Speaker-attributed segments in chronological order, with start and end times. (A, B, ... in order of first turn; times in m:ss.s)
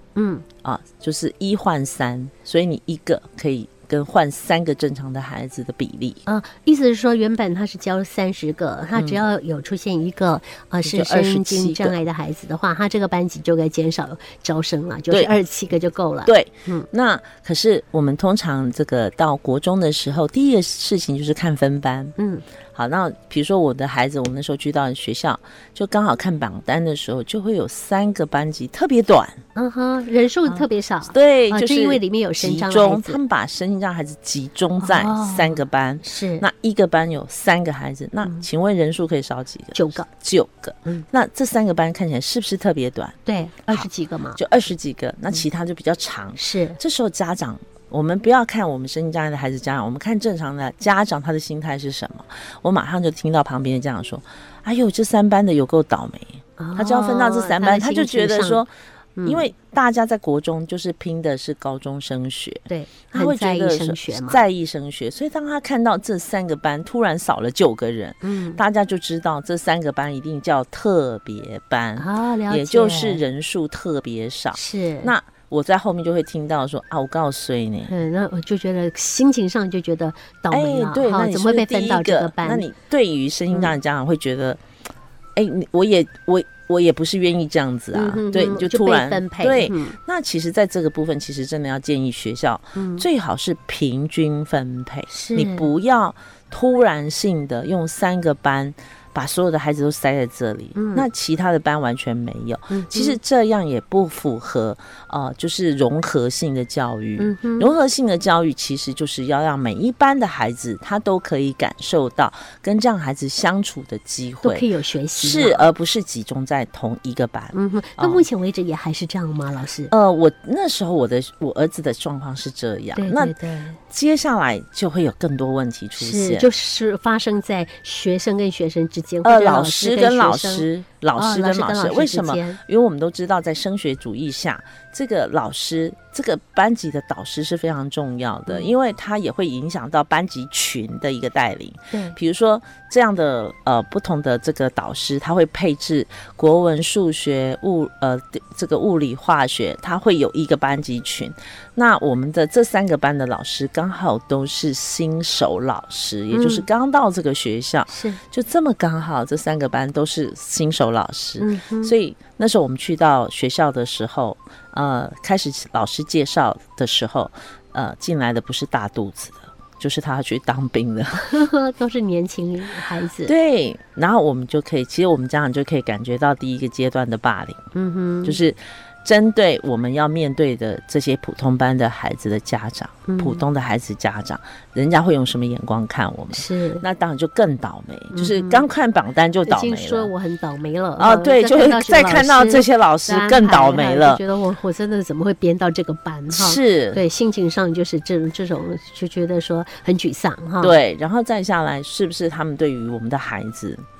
0:00.2-0:00.4 A
0:00.6-0:06.2 B
0:06.2-0:16.9 A
0:09.0-0:09.2 B
0:10.8-0:12.0 B
0:16.2-0:22.1 B
0:22.2-0:22.4 A
0:22.7-0:29.4 B
0:29.5-0:33.2 A
0:30.5-0:43.2 B
0:34.8-0:36.4 A
0:39.7-0:40.1 A
0:43.2-0:44.4 A
0:43.7-0:58.7 B
0:46.4-0:46.8 A
0:56.6-0:58.6 A
0:59.2-0:59.5 A
0:59.2-1:17.9 B
1:02.7-1:04.4 A
1:08.2-1:08.6 A
1:12.0-1:13.2 A
1:14.5-1:15.1 A
1:17.9-1:22.6 A
1:20.5-1:24.6 B
1:25.4-1:54.7 B
1:27.9-1:30.0 A
1:32.7-1:33.0 A
1:35.1-1:35.7 A
1:40.7-1:41.1 A
1:42.7-1:43.2 A
1:47.2-1:47.7 A
1:54.4-1:55.6 A
1:55.2-1:58.2 B
1:57.5-1:59.9 A
1:59.9-2:03.3 B
2:03.0-2:03.8 A
2:03.9-2:06.5 B
2:06.0-2:12.6 A
2:09.2-2:51.4 B
2:18.5-2:18.7 A
2:21.9-2:22.2 A
2:36.3-2:36.6 A
2:37.9-2:38.2 A
2:41.4-2:41.9 A
2:51.2-2:53.3 A
2:53.2-2:57.6 B
2:57.7-2:58.4 A
2:58.2-3:10.1 B
3:03.1-3:03.4 A
3:06.3-3:06.8 A
3:08.1-3:08.7 A
3:09.4-3:20.7 A
3:11.0-3:14.2 B
3:16.3-3:17.0 B
3:20.6-3:23.8 B